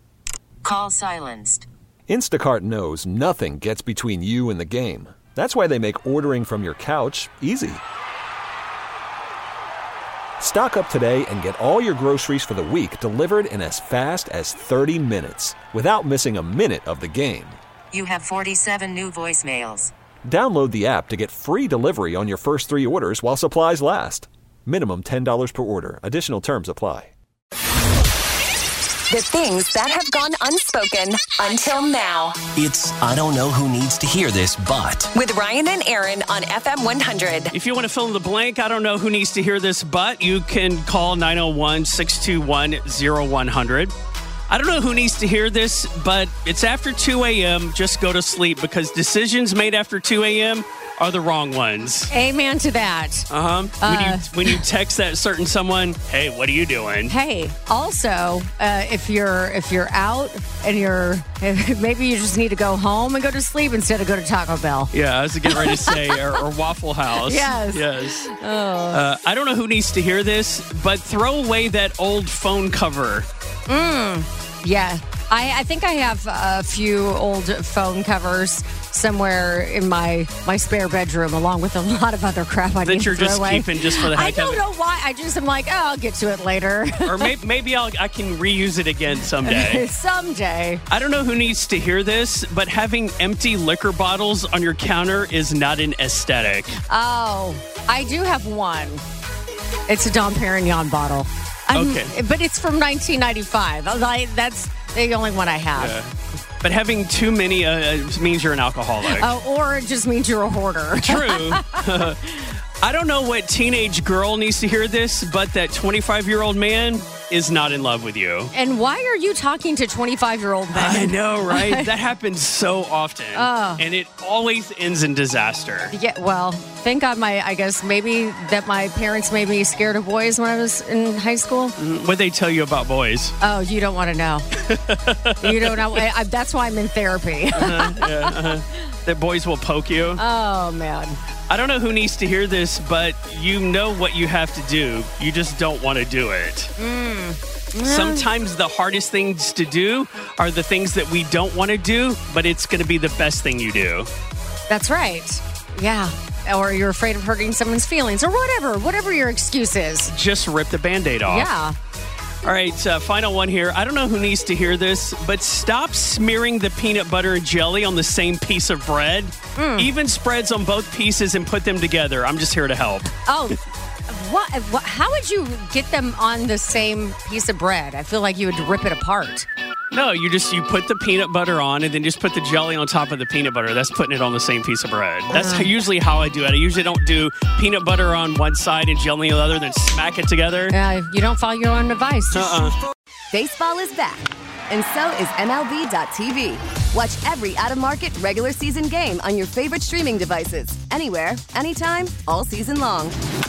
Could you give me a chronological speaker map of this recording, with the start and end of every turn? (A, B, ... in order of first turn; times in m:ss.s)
0:00.6-0:01.7 A
0:02.1-0:07.8 B
0:10.4-0:17.6 B
0:17.9-0:19.9 A
0:20.2-0:27.1 B
0:29.1-0:32.5 C
0:32.5-0:35.1 D
0:35.1-0:37.5 C
0:37.5-0:43.9 E
0:44.5-0:52.1 E
0:52.1-0:53.2 F
0:53.3-0:57.1 E
0:53.8-0:54.6 F
0:57.1-1:04.9 F
1:04.9-1:08.2 E
1:05.4-1:06.2 F
1:07.2-1:09.0 F
1:08.9-1:13.3 E
1:13.7-1:27.3 F
1:22.8-1:24.6 E
1:27.0-1:29.9 E
1:29.4-1:30.8 F
1:30.9-1:36.7 E
1:36.9-1:39.0 F
1:39.9-1:46.0 F
1:41.7-1:42.1 E
1:45.8-1:46.1 E
1:46.6-1:49.4 E
1:49.0-1:51.8 F
1:51.0-1:58.5 E
1:58.5-2:01.9 F
2:00.7-2:05.9 E
2:03.3-2:03.8 F
2:05.9-2:11.7 F
2:11.8-2:13.3 E
2:13.4-2:14.5 F
2:14.7-2:16.0 E
2:15.4-2:18.3 F
2:17.5-2:20.2 E
2:20.2-2:21.2 F
2:21.5-2:26.7 E
2:26.8-2:28.3 F
2:27.8-2:34.1 E
2:34.7-2:40.1 F
2:40.1-2:41.5 E
2:41.2-2:41.7 F
2:42.4-2:53.1 E
2:49.6-2:49.9 F
2:53.2-2:59.5 F
2:59.9-3:10.7 E
3:05.3-3:05.7 F
3:10.7-3:12.7 F
3:12.3-3:12.7 E
3:13.3-3:23.2 G